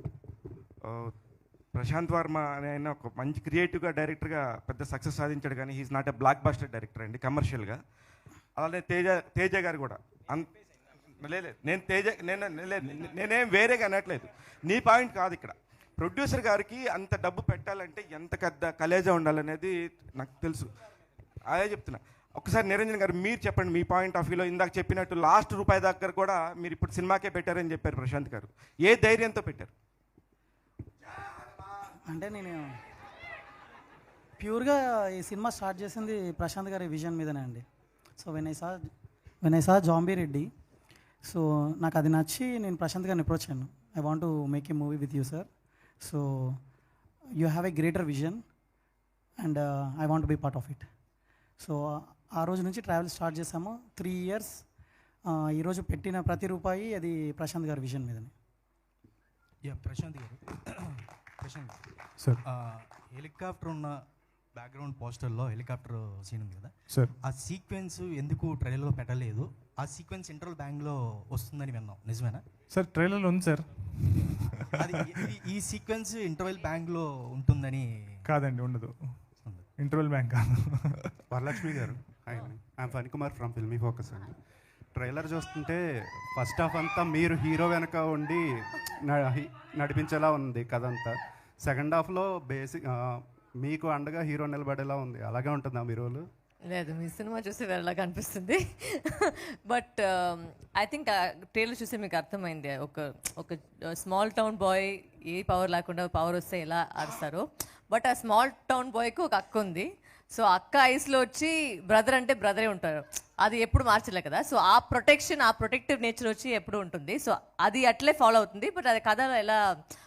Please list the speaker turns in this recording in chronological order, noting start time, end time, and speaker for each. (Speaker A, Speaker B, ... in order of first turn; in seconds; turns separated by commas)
Speaker A: 0.8-1.1, Speaker A: 1.7-7.8, Speaker A: 8.6-10.5, Speaker A: 11.2-20.7, Speaker A: 21.5-29.7, Speaker B: 32.1-32.7, Speaker B: 34.4-37.6, Speaker B: 38.2-38.9, Speaker B: 39.4-40.5, Speaker B: 41.2-45.5, Speaker B: 46.0-46.6, Speaker B: 47.4-48.4, Speaker B: 49.4-50.9, Speaker B: 51.6-54.6, Speaker B: 55.3-58.3, Speaker C: 59.6-61.9, Speaker C: 62.4-72.5, Speaker D: 72.7-75.0, Speaker C: 74.8-78.3, Speaker D: 78.3-79.2, Speaker C: 79.4-79.7, Speaker D: 79.8-81.7, Speaker E: 81.3-84.4, Speaker E: 85.0-93.1, Speaker E: 93.6-96.3, Speaker F: 96.7-119.6